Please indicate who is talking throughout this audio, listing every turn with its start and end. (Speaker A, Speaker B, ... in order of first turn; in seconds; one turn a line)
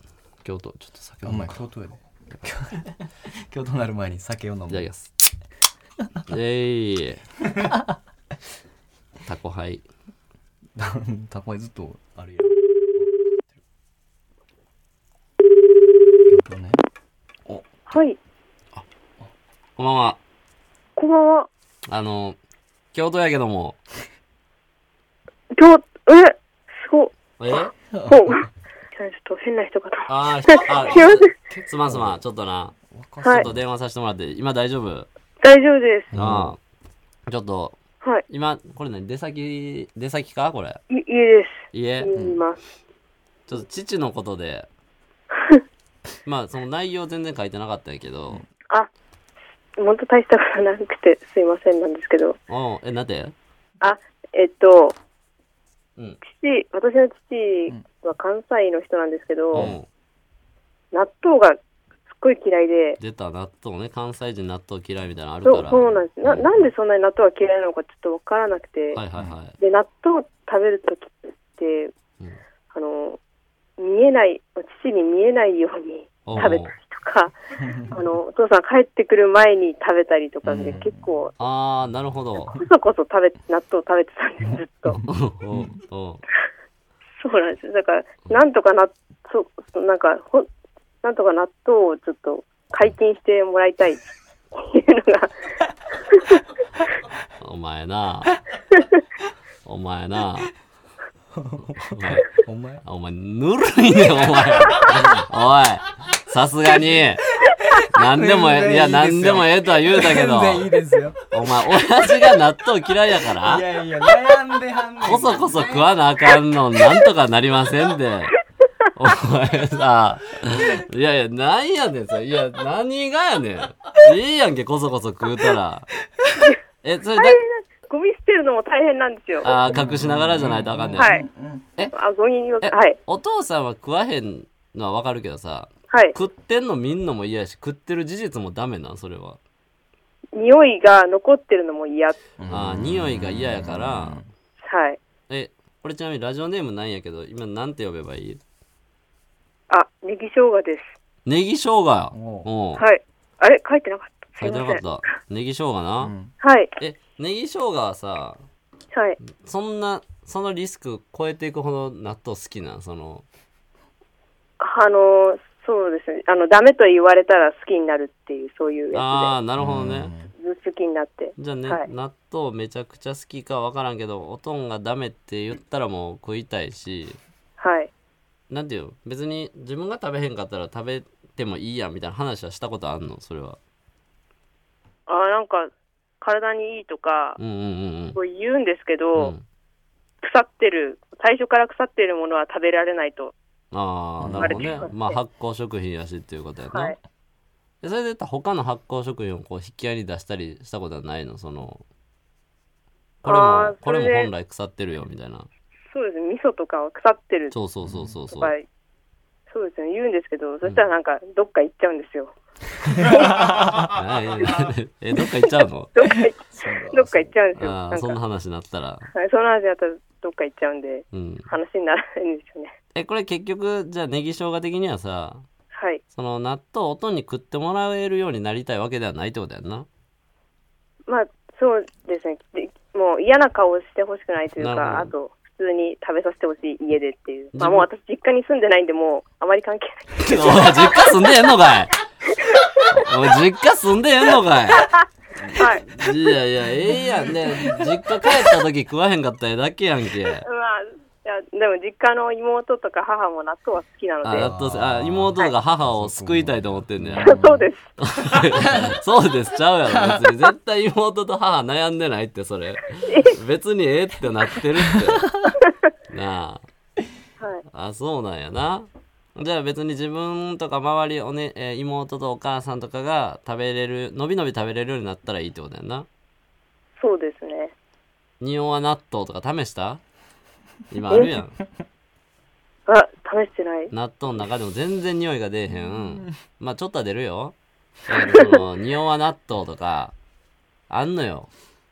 Speaker A: 0.4-1.6
Speaker B: 1.2-4.9
Speaker A: 4.7-5.1
Speaker A: 6.3-7.2
Speaker A: 9.3-9.8
Speaker B: 10.8-13.4
Speaker B: 16.3-16.8
Speaker C: 17.9-18.2
Speaker A: 19.8-20.2
Speaker C: 20.9-21.5
Speaker A: 21.9-22.4
Speaker A: 22.9-23.8
Speaker C: 25.5-31.3
Speaker A: 27.4-27.7
Speaker B: 27.9-28.4
Speaker A: 30.1-32.7
Speaker B: 31.4-32.2
Speaker B: 32.9-33.6
Speaker A: 33.3-35.1
Speaker C: 35.4-36.1
Speaker B: 36.1-36.5
Speaker A: 36.1-36.6
Speaker A: 37.3-37.8
Speaker A: 38.3-40.8
Speaker C: 40.9-42.6
Speaker A: 41.7-42.1
Speaker B: 42.1-42.4
Speaker A: 43.5-44.7
Speaker C: 45.3-45.6
Speaker A: 46.2-48.4
Speaker C: 49.8-52.4
Speaker A: 52.5-53.3
Speaker C: 53.8-55.0
Speaker C: 56.2-59.7
Speaker A: 59.5-59.9
Speaker C: 60.9-61.6
Speaker C: 62.1-63.0
Speaker A: 63.0-66.5
Speaker C: 65.5-69.0
Speaker A: 68.9-69.5
Speaker C: 69.6-71.9
Speaker C: 72.7-73.2
Speaker C: 73.8-81.3
Speaker A: 76.3-76.7
Speaker B: 80.5-81.0
Speaker A: 81.4-82.6
Speaker C: 82.5-85.0
Speaker B: 85.0-85.7
Speaker A: 85.1-86.2
Speaker C: 87.2-90.5
Speaker C: 91.0-94.0
Speaker C: 94.5-95.3
Speaker C: 96.1-96.4
Speaker A: 97.4-98.4
Speaker A: 99.6-100.5
Speaker B: 101.4-102.8
Speaker A: 101.8-102.3
Speaker A: 102.8-107.3
Speaker B: 107.5-111.2
Speaker A: 107.9-110.7
Speaker A: 111.3-113.6
Speaker B: 113.4-115.9
Speaker A: 115.0-118.3
Speaker A: 119.0-125.9
Speaker A: 126.8-127.4
Speaker C: 127.2-129.6
Speaker A: 129.4-131.1
Speaker B: 129.6-131.7
Speaker C: 130.9-131.2
Speaker C: 131.9-133.0
Speaker A: 132.6-139.4
Speaker C: 140.3-142.2
Speaker B: 142.4-144.3
Speaker A: 142.5-144.2
Speaker C: 144.6-145.0
Speaker A: 145.3-148.4
Speaker C: 149.7-150.9
Speaker A: 151.3-152.8
Speaker B: 152.1-152.5
Speaker C: 152.8-154.8
Speaker A: 154.4-156.1
Speaker B: 156.0-156.3
Speaker C: 156.4-156.7
Speaker A: 156.8-158.4
Speaker C: 158.9-159.2
Speaker A: 159.3-163.2
Speaker C: 164.6-169.3
Speaker A: 168.9-170.1
Speaker B: 169.6-170.3
Speaker C: 170.4-171.9
Speaker A: 171.4-177.2
Speaker C: 177.6-177.9
Speaker A: 178.5-183.6
Speaker C: 185.1-187.4
Speaker A: 187.4-188.2
Speaker C: 188.1-189.3
Speaker A: 189.1-189.4
Speaker C: 190.2-193.3
Speaker A: 193.7-196.9
Speaker B: 194.2-194.8
Speaker C: 194.4-195.2
Speaker A: 197.8-201.8
Speaker A: 203.2-205.5
Speaker C: 203.2-204.3
Speaker C: 205.9-207.6
Speaker A: 207.5-208.5
Speaker B: 207.8-208.1
Speaker C: 208.3-208.6
Speaker C: 209.5-212.4
Speaker C: 212.9-213.6
Speaker A: 213.9-215.9
Speaker C: 215.9-218.2
Speaker B: 216.5-217.3
Speaker A: 217.6-219.1
Speaker C: 219.1-222.7
Speaker A: 221.1-221.5
Speaker A: 222.9-225.4
Speaker C: 225.7-226.0
Speaker A: 226.1-229.9
Speaker C: 231.1-241.1
Speaker A: 234.6-235.1
Speaker A: 237.6-237.9
Speaker A: 240.2-241.9
Speaker C: 242.5-242.9
Speaker A: 242.9-244.9
Speaker A: 245.5-250.4
Speaker C: 245.6-246.0
Speaker C: 250.4-254.5
Speaker A: 254.2-257.4
Speaker B: 254.3-257.7
Speaker C: 257.2-257.9
Speaker A: 258.0-265.4
Speaker B: 258.6-259.0
Speaker B: 259.9-260.3
Speaker C: 263.1-263.4
Speaker B: 264.9-265.5
Speaker A: 266.1-266.6
Speaker A: 267.7-276.1
Speaker C: 277.0-277.7
Speaker A: 278.4-280.0
Speaker A: 280.9-281.6
Speaker C: 282.9-283.9
Speaker A: 283.9-287.6
Speaker A: 288.1-290.1
Speaker A: 290.9-291.5